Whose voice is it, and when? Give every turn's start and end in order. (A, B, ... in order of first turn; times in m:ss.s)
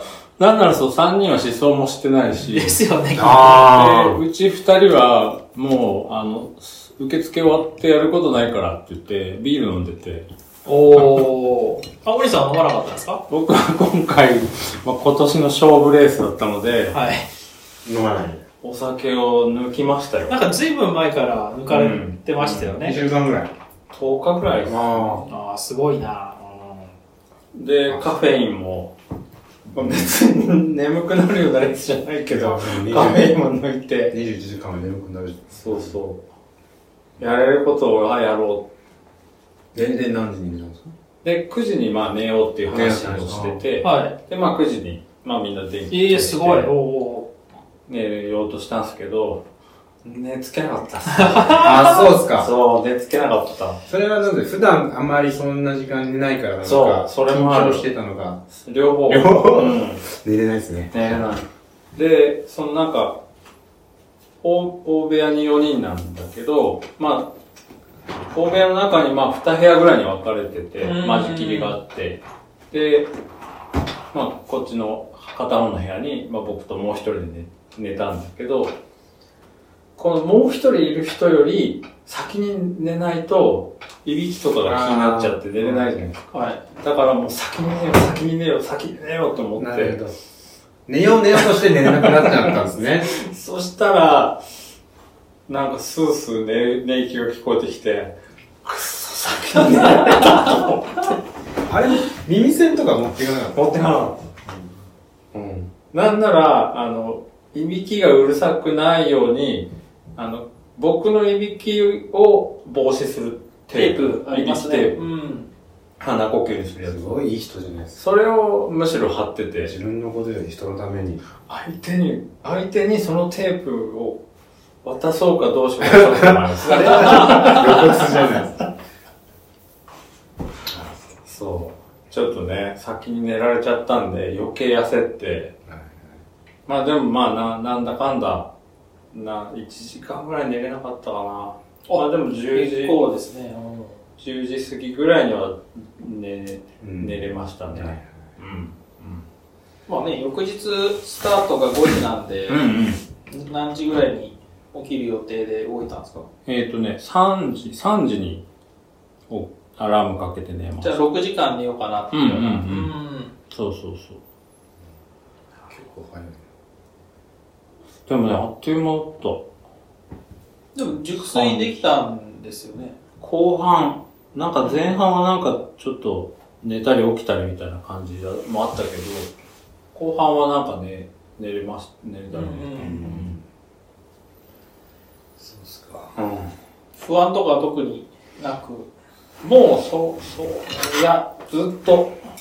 0:00.4-0:10.3 A
0:02.5-0:03.6 B
0:03.2-0:04.2 C
0:10.7-0:13.2 B
0:13.3-0:17.0 A
0:16.9-0:17.3 B
0:17.8-0:18.4 C
0:18.6-0:20.4 A
0:20.3-0:23.0 B
0:21.7-0:22.8 A
0:22.8-0:23.5 C
0:23.9-0:25.3 A
0:24.6-0:25.3 C
0:25.3-0:26.9 B
0:27.5-0:29.0 A
0:29.7-0:30.1 C
0:29.7-0:34.2 A
0:32.3-0:33.4 C
0:34.1-0:36.0 C
0:35.6-0:36.2 A
0:37.2-0:38.7 A
0:39.7-0:40.9 C
0:41.2-0:46.7 A
0:42.7-0:43.6 C
0:43.8-0:44.2 B
0:45.9-0:47.3 B
0:47.9-0:49.4 A
0:50.0-0:53.8 A
0:51.1-0:52.0 B
0:51.6-0:52.5 C
0:53.9-0:58.4 C
0:56.6-0:57.9 A
0:58.5-1:00.0 A
0:59.1-1:01.0 C
1:00.9-1:03.2 A
1:04.4-1:07.3 A
1:08.3-1:13.1 A
1:10.8-1:11.8 B
1:14.1-1:18.7 A
1:20.0-1:30.0 A
1:24.6-1:26.0 C
1:26.3-1:26.6 B
1:29.6-1:30.1 C
1:30.9-1:33.1 C
1:31.3-1:34.4 A
1:35.5-1:41.2 A
1:40.1-1:40.5 B
1:41.7-1:43.7 C
1:43.5-1:44.2 A
1:44.4-1:44.7 C
1:45.3-1:55.0 A
1:53.7-1:55.5 B
1:56.0-1:57.2 A
1:56.8-1:58.0 C
1:58.0-1:59.7 A
1:59.6-2:01.2 C
2:01.5-2:04.2 A
2:04.8-2:08.1 A
2:05.9-2:08.7 C
2:07.2-2:07.6 B
2:10.7-2:11.0 C
2:11.2-2:15.5 A
2:15.7-2:16.1 C
2:16.7-2:18.5 A
2:19.1-2:23.1 A
2:21.9-2:24.0 B
2:24.2-2:29.2 A
2:26.8-2:27.2 C
2:27.7-2:28.0 C
2:29.9-2:32.7 B
2:32.5-2:33.0 A
2:33.3-2:36.2 B
2:36.5-2:38.4 A
2:39.3-2:41.0 A
2:40.8-2:43.3 B
2:42.1-2:42.9 A
2:43.5-2:44.2 A
2:45.6-2:46.4 C
2:48.1-2:49.5 A
2:50.8-2:53.0 B
2:51.2-2:51.7 A
2:53.2-2:59.3 A
2:59.9-3:03.4 A
3:02.3-3:03.1 B
3:02.8-3:03.4 C
3:05.4-3:06.2 C
3:06.2-3:06.5 A
3:07.0-3:08.9 B
3:09.4-3:12.2 A